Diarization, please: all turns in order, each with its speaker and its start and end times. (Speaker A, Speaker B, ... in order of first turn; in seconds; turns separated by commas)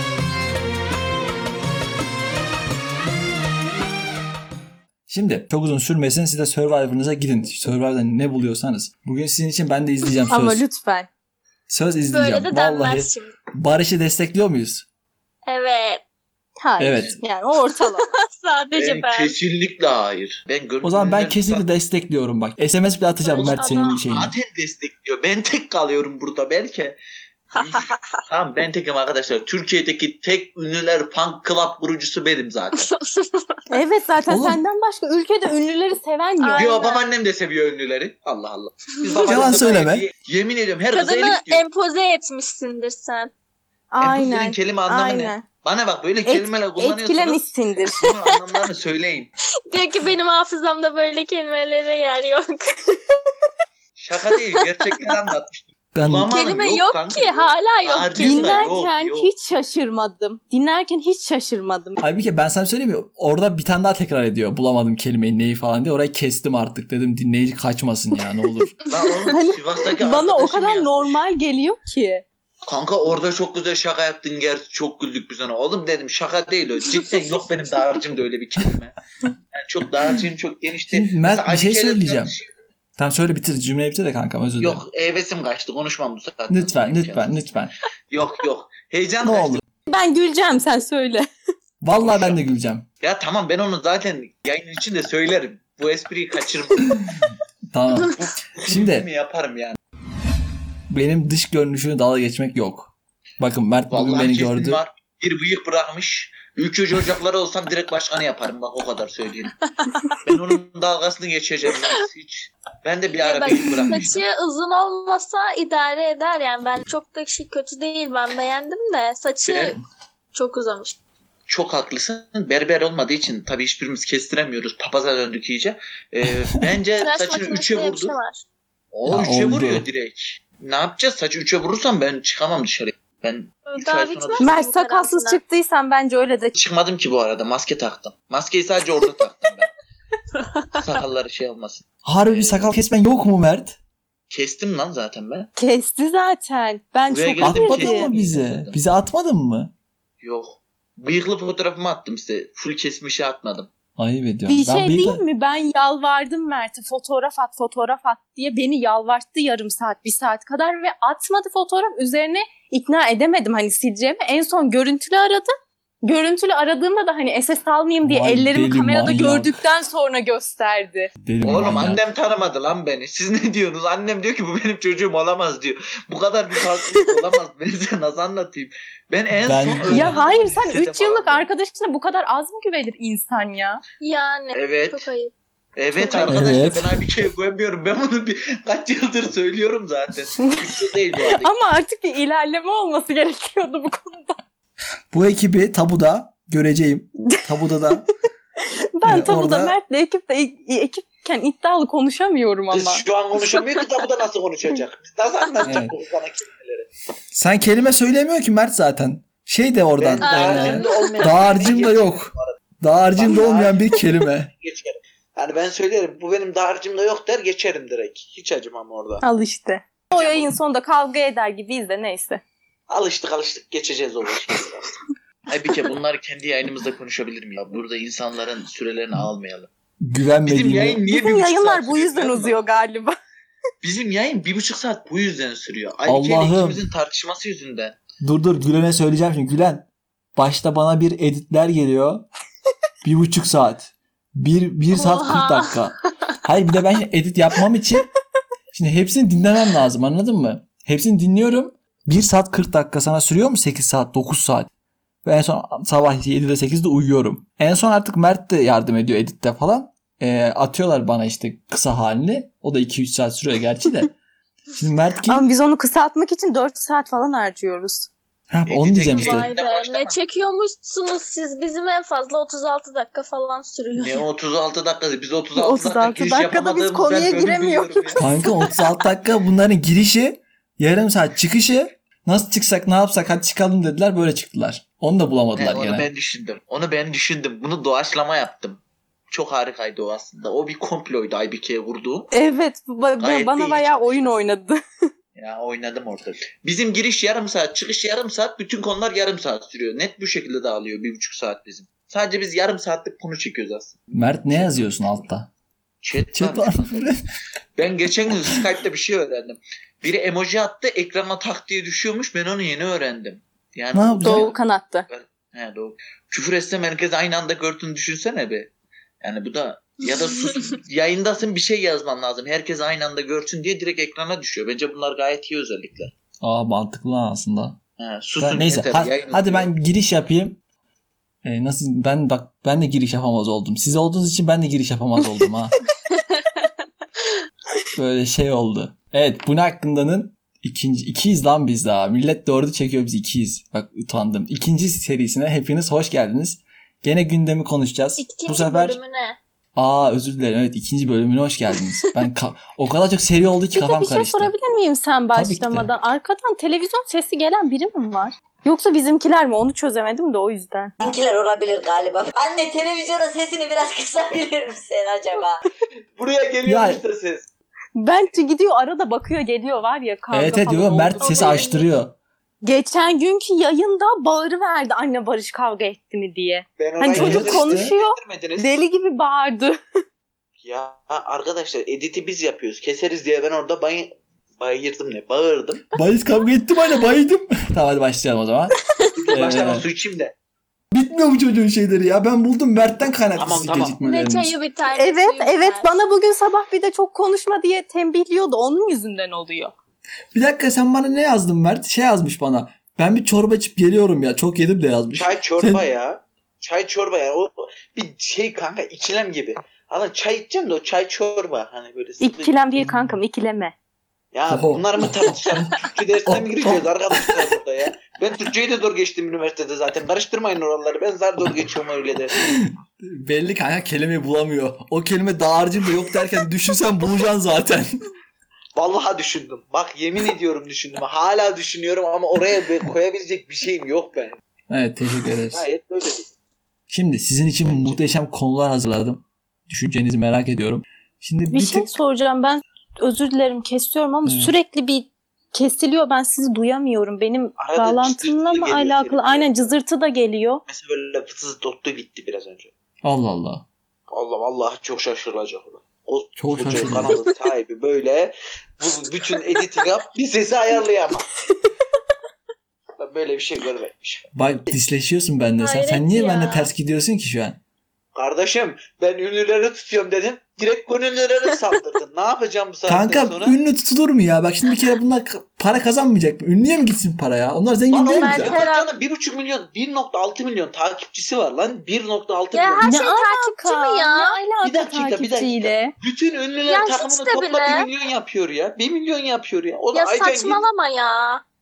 Speaker A: 5.1-10.6, Speaker B: 10.3-11.1, Speaker A: 11.7-14.9, Speaker C: 12.1-13.3, Speaker C: 15.5-16.0, Speaker B: 16.6-18.1, Speaker A: 16.8-17.2, Speaker C: 18.0-19.3, Speaker D: 18.8-21.7, Speaker A: 20.8-24.3, Speaker C: 23.2-24.0, Speaker D: 24.1-27.0, Speaker D: 27.6-32.9, Speaker C: 27.7-28.1, Speaker C: 32.8-33.6, Speaker B: 33.7-36.7, Speaker A: 34.3-34.6, Speaker C: 36.4-37.0, Speaker D: 36.5-41.6, Speaker A: 39.2-40.0, Speaker C: 40.9-43.3, Speaker B: 43.9-45.4, Speaker D: 44.0-49.3, Speaker B: 46.3-48.0, Speaker C: 49.7-53.0, Speaker D: 54.0-59.3, Speaker A: 55.9-56.4, Speaker C: 56.3-58.8, Speaker B: 58.2-62.0, Speaker A: 62.0-68.7, Speaker D: 68.9-71.2, Speaker B: 69.3-72.2, Speaker D: 72.7-79.0, Speaker D: 79.5-82.5, Speaker A: 80.9-82.3, Speaker A: 83.0-84.8, Speaker D: 84.6-87.4, Speaker A: 86.5-87.7, Speaker D: 88.1-89.6, Speaker A: 89.2-89.6, Speaker B: 89.9-91.3, Speaker A: 91.8-92.9, Speaker D: 92.0-92.4, Speaker D: 93.0-96.9, Speaker A: 97.2-99.1, Speaker D: 98.1-99.8, Speaker A: 100.9-104.8, Speaker D: 103.9-109.5, Speaker D: 110.2-114.2, Speaker C: 113.1-119.8, Speaker D: 119.5-119.8, Speaker C: 120.3-121.0, Speaker D: 121.5-128.2, Speaker C: 127.0-128.4, Speaker D: 128.9-134.5, Speaker A: 129.1-129.9, Speaker C: 133.7-135.4, Speaker B: 134.4-136.5, Speaker D: 136.6-139.7, Speaker C: 140.5-140.8, Speaker D: 140.8-142.7, Speaker A: 142.1-143.8, Speaker D: 144.3-145.5, Speaker B: 145.6-148.1, Speaker D: 147.1-148.8, Speaker A: 147.4-149.7, Speaker D: 150.2-153.7, Speaker A: 154.0-155.2, Speaker B: 154.5-165.5, Speaker B: 166.0-171.1, Speaker A: 168.0-169.6, Speaker A: 171.2-172.0, Speaker D: 171.4-181.5, Speaker A: 179.4-180.2, Speaker B: 179.9-183.8, Speaker C: 184.0-185.3, Speaker D: 184.6-185.1, Speaker D: 185.8-191.5, Speaker B: 186.0-186.4, Speaker A: 186.3-187.0, Speaker B: 191.3-194.4, Speaker A: 195.1-198.1, Speaker B: 198.9-203.0, Speaker A: 199.1-199.8, Speaker D: 202.7-206.9, Speaker A: 205.7-205.9, Speaker A: 207.3-214.5, Speaker D: 210.0-212.6, Speaker C: 210.2-211.1, Speaker D: 213.1-219.2, Speaker B: 219.2-222.4, Speaker D: 220.1-220.5, Speaker D: 222.9-229.7, Speaker A: 230.0-231.0, Speaker D: 230.4-232.7, Speaker B: 231.1-233.2, Speaker D: 233.8-238.0, Speaker A: 236.1-236.8, Speaker A: 238.2-242.3, Speaker A: 243.0-248.1, Speaker C: 244.9-245.9, Speaker A: 248.7-254.7, Speaker A: 255.2-264.1, Speaker A: 264.8-265.4, Speaker B: 265.3-268.1, Speaker A: 268.5-269.5, Speaker D: 268.7-270.2, Speaker C: 269.1-274.2, Speaker D: 274.0-278.3, Speaker B: 275.6-278.4, Speaker A: 278.2-286.1, Speaker D: 285.6-292.3, Speaker B: 292.3-294.8, Speaker D: 293.2-294.4, Speaker D: 295.4-305.3, Speaker A: 304.1-305.5, Speaker D: 306.0-307.1, Speaker A: 306.3-307.2, Speaker D: 307.8-326.1, Speaker A: 313.9-314.5, Speaker B: 314.2-315.1, Speaker A: 326.4-327.8, Speaker D: 328.0-329.7, Speaker A: 328.4-330.6, Speaker A: 331.4-335.8, Speaker A: 338.0-349.0, Speaker C: 348.2-349.4, Speaker A: 349.8-354.5, Speaker B: 353.7-360.9, Speaker A: 355.4-355.9, Speaker E: 361.0-365.6, Speaker D: 366.2-367.5, Speaker A: 366.6-367.0, Speaker B: 368.0-371.6, Speaker A: 370.3-372.1, Speaker C: 371.2-371.9, Speaker B: 372.6-379.8, Speaker D: 376.8-378.8, Speaker A: 377.1-377.9, Speaker D: 380.6-385.9, Speaker A: 386.0-388.7, Speaker D: 389.2-390.4, Speaker A: 389.3-389.9, Speaker A: 390.9-394.6, Speaker D: 393.4-394.0, Speaker C: 394.0-396.0, Speaker B: 394.9-399.7, Speaker A: 400.3-405.9, Speaker D: 405.2-412.6, Speaker B: 412.2-413.7, Speaker A: 412.8-413.1, Speaker D: 414.3-422.4, Speaker A: 414.5-415.8, Speaker A: 416.3-417.3, Speaker A: 422.4-428.0, Speaker D: 428.8-434.4, Speaker A: 434.7-435.6, Speaker D: 435.5-436.3, Speaker A: 436.9-441.9, Speaker D: 437.7-438.0, Speaker B: 441.5-450.6, Speaker A: 444.2-444.6, Speaker D: 447.6-449.6, Speaker D: 450.7-452.7, Speaker A: 453.0-453.7, Speaker D: 454.1-461.3, Speaker A: 456.4-457.2, Speaker D: 463.0-464.3, Speaker A: 464.4-467.6, Speaker C: 465.6-466.7, Speaker D: 468.1-473.6, Speaker A: 472.9-478.6, Speaker D: 477.9-482.9, Speaker C: 478.1-478.9, Speaker C: 482.5-484.4, Speaker B: 482.8-485.9, Speaker D: 484.6-490.6, Speaker C: 486.7-487.9, Speaker C: 489.9-491.4